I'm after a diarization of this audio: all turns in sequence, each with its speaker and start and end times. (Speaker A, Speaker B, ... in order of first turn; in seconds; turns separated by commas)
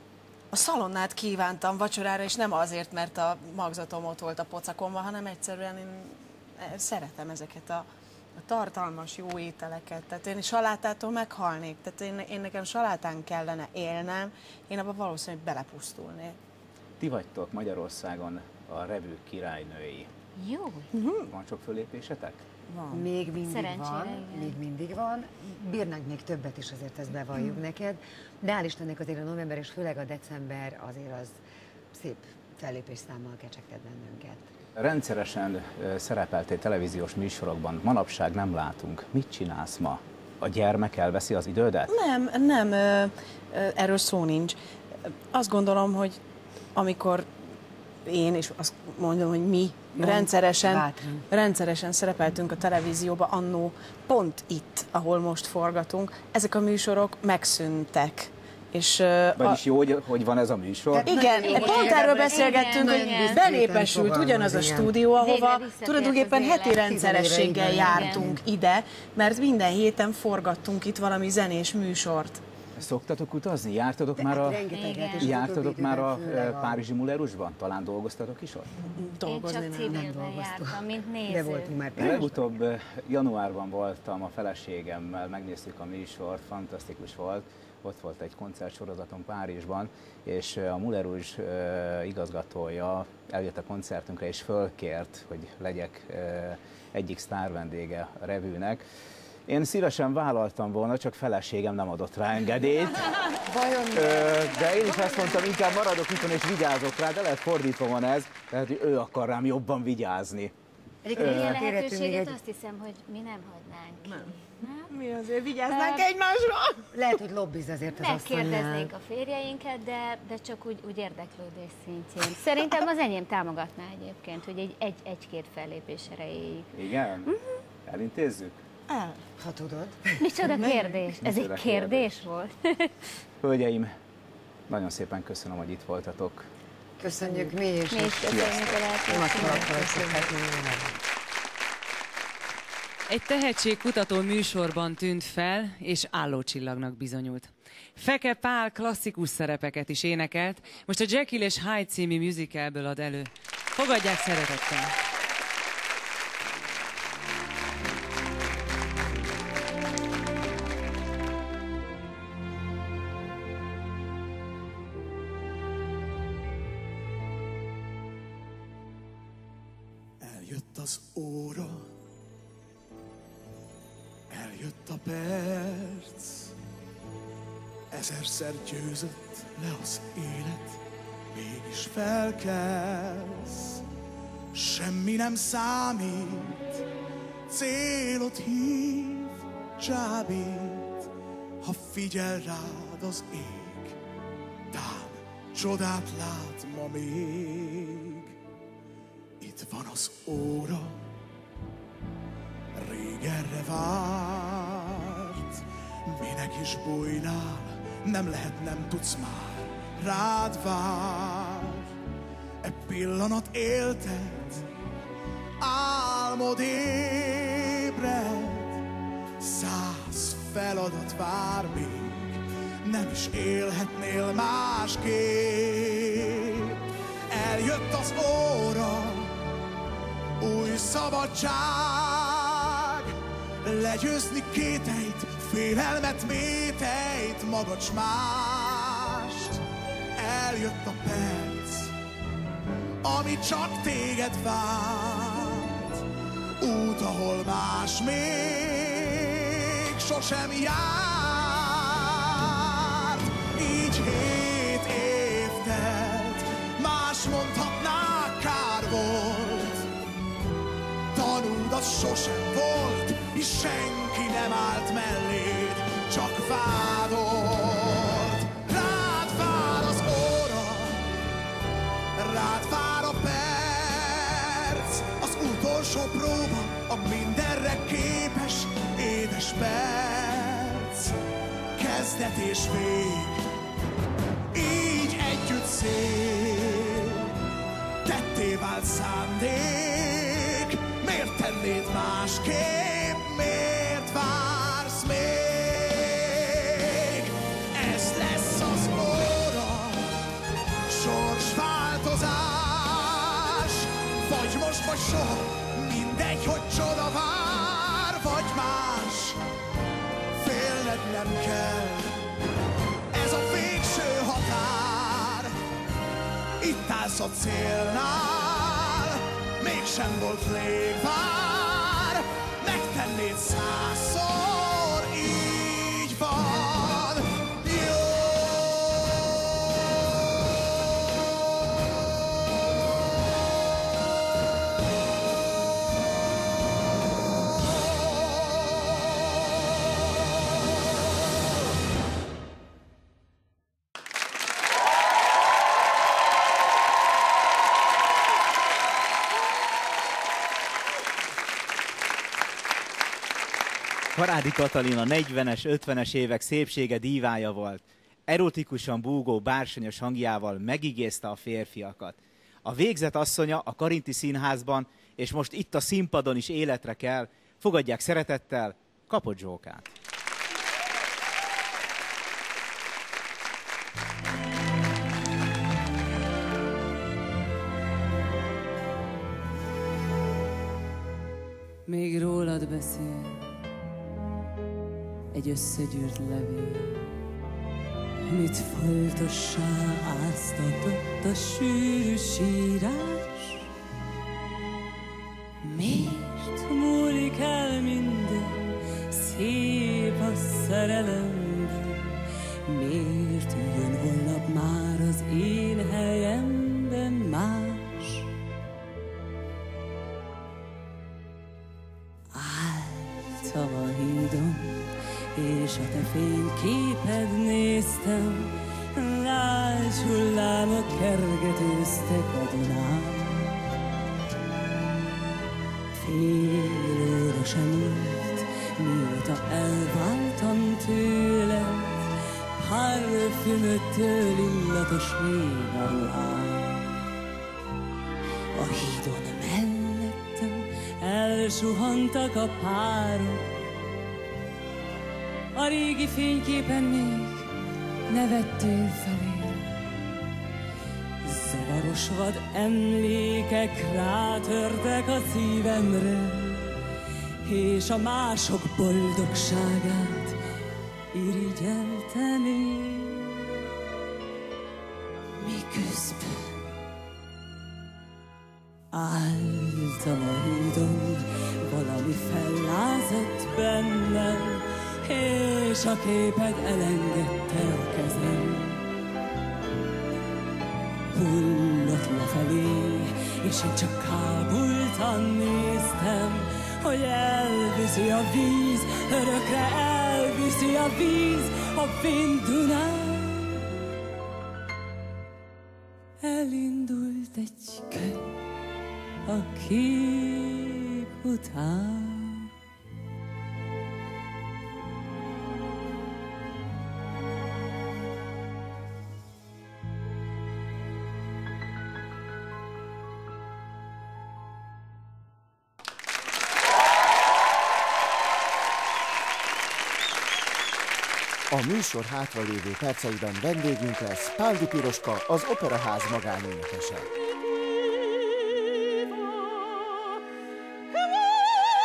Speaker A: 0.5-7.9, Speaker A: 8.4-16.4, Speaker B: 17.0-20.1, Speaker C: 20.4-20.9, Speaker A: 20.9-21.3, Speaker B: 21.3-22.4, Speaker A: 22.7-23.1, Speaker D: 22.9-31.4, Speaker C: 23.4-24.6, Speaker D: 31.9-34.5, Speaker B: 34.8-41.9, Speaker A: 41.9-44.6, Speaker A: 45.3-46.2, Speaker A: 46.8-47.3, Speaker A: 48.0-59.6, Speaker D: 50.0-51.2, Speaker B: 59.4-61.1, Speaker D: 60.9-65.0, Speaker A: 61.0-72.4, Speaker C: 61.1-63.5, Speaker C: 65.2-66.9, Speaker D: 66.7-68.4, Speaker C: 67.8-68.3, Speaker B: 72.8-78.7, Speaker D: 74.2-76.8, Speaker C: 74.7-75.4, Speaker A: 79.0-80.0, Speaker C: 79.2-82.2, Speaker D: 79.8-82.5, Speaker B: 81.9-98.8, Speaker B: 99.5-103.3, Speaker B: 103.8-110.5, Speaker D: 111.0-112.3, Speaker C: 111.1-114.9, Speaker B: 111.1-111.7, Speaker A: 114.9-116.9, Speaker C: 115.7-116.1, Speaker D: 116.9-118.9, Speaker C: 117.9-126.7, Speaker B: 126.7-127.3, Speaker B: 127.8-128.6, Speaker A: 128.9-129.2, Speaker D: 129.4-130.7, Speaker C: 130.2-132.9, Speaker A: 130.6-131.1, Speaker B: 131.2-132.1, Speaker B: 133.4-133.9, Speaker B: 134.7-136.5, Speaker D: 137.0-138.5, Speaker C: 137.4-140.3, Speaker B: 138.1-138.9, Speaker D: 139.0-140.9, Speaker E: 143.1-154.9, Speaker F: 170.2-171.9, Speaker F: 174.3-176.5, Speaker F: 177.9-180.8, Speaker F: 181.3-183.8, Speaker F: 184.5-186.8, Speaker F: 187.5-191.1, Speaker F: 191.6-194.0, Speaker F: 194.7-198.3, Speaker F: 199.4-201.0, Speaker F: 202.8-211.9, Speaker F: 212.6-214.6, Speaker F: 215.6-218.8, Speaker F: 219.4-229.3, Speaker F: 230.4-233.1, Speaker F: 233.6-239.6, Speaker F: 240.2-241.9, Speaker F: 243.0-246.0, Speaker F: 246.6-259.9, Speaker F: 261.1-271.0, Speaker F: 272.1-281.1, Speaker F: 281.7-283.5, Speaker F: 284.5-287.2, Speaker F: 288.0-300.1, Speaker F: 300.9-309.4, Speaker F: 310.4-312.2, Speaker F: 313.1-315.5, Speaker F: 316.6-328.6, Speaker B: 354.1-369.9, Speaker G: 381.9-383.1, Speaker G: 385.3-387.1, Speaker G: 388.3-393.6, Speaker G: 395.6-402.0, Speaker G: 402.7-408.3, Speaker G: 412.3-423.5, Speaker G: 426.0-436.9, Speaker G: 438.5-443.4, Speaker G: 445.5-447.5, Speaker G: 448.1-449.6, Speaker G: 451.2-456.7, Speaker G: 457.4-460.4, Speaker G: 461.1-463.4, Speaker G: 465.4-466.6, Speaker G: 468.9-478.8, Speaker G: 481.1-493.6, Speaker G: 496.2-498.3, Speaker G: 499.3-502.5, Speaker H: 521.5-527.1